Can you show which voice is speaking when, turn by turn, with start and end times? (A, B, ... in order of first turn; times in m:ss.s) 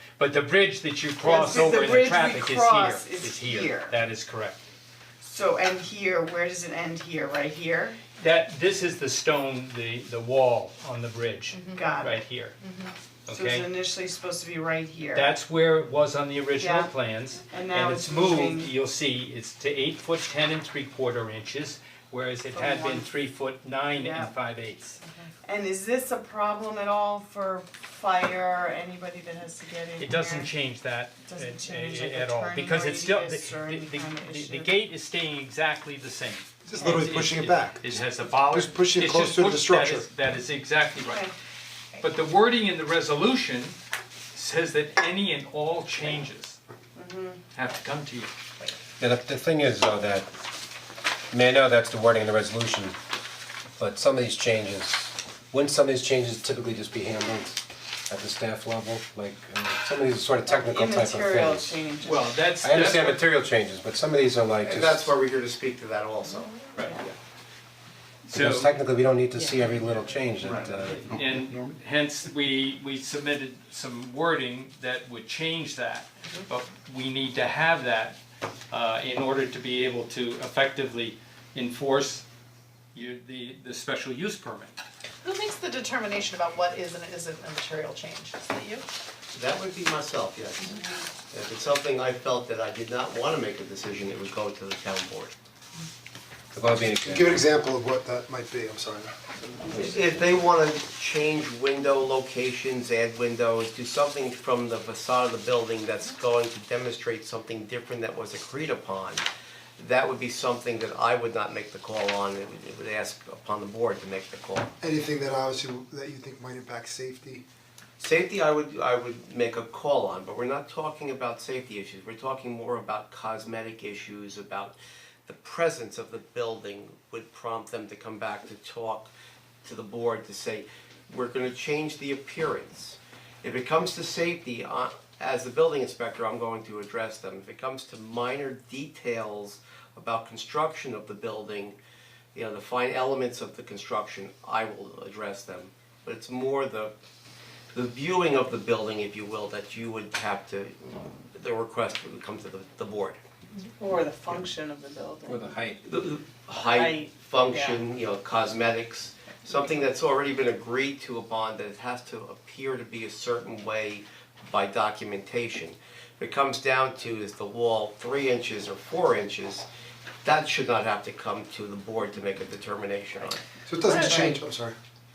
0:00.2-0:04.6 A
0:01.2-0:04.0 B
0:05.2-0:08.0 B
0:08.2-0:12.6 A
0:11.5-0:11.9 C
0:11.7-0:12.2 B
0:12.6-0:12.9 C
0:13.3-0:13.7 A
0:13.3-0:15.3 B
0:15.1-0:25.0 A
0:16.6-0:16.9 B
0:17.5-0:18.7 B
0:22.5-0:23.1 B
0:23.9-0:24.3 B
0:25.0-0:30.5 B
0:30.0-0:41.3 A
0:31.2-0:34.8 B
0:36.6-0:40.1 D
0:41.0-0:41.3 B
0:42.0-0:43.8 A
0:44.3-0:46.6 A
0:47.0-0:47.4 B
0:47.6-0:48.3 A
0:49.0-0:50.5 E
0:51.3-0:53.0 E
0:53.8-1:01.9 E
1:00.4-1:02.3 B
1:02.0-1:03.2 A
1:02.6-1:05.1 E
1:04.6-1:07.1 F
1:06.8-1:07.0 B
1:08.3-1:08.7 A
1:08.3-1:11.2 E
1:10.6-1:11.8 D
1:10.7-1:18.2 A
1:18.7-1:22.2 A
1:22.9-1:24.8 A
1:25.2-1:28.8 C
1:29.3-1:35.3 F
1:36.5-1:37.4 E
1:37.1-1:39.1 D
1:39.7-1:49.3 F
1:49.8-1:54.7 F
1:54.8-1:57.4 D
1:58.0-2:09.1 F
2:09.6-2:21.8 F
2:22.3-2:26.9 F
2:27.7-2:33.2 F
2:33.8-2:35.6 B
2:35.2-2:35.9 E
2:35.8-2:49.7 F
2:36.5-2:37.8 B
2:50.2-2:53.4 F
2:53.7-2:54.8 D
2:53.8-2:54.4 C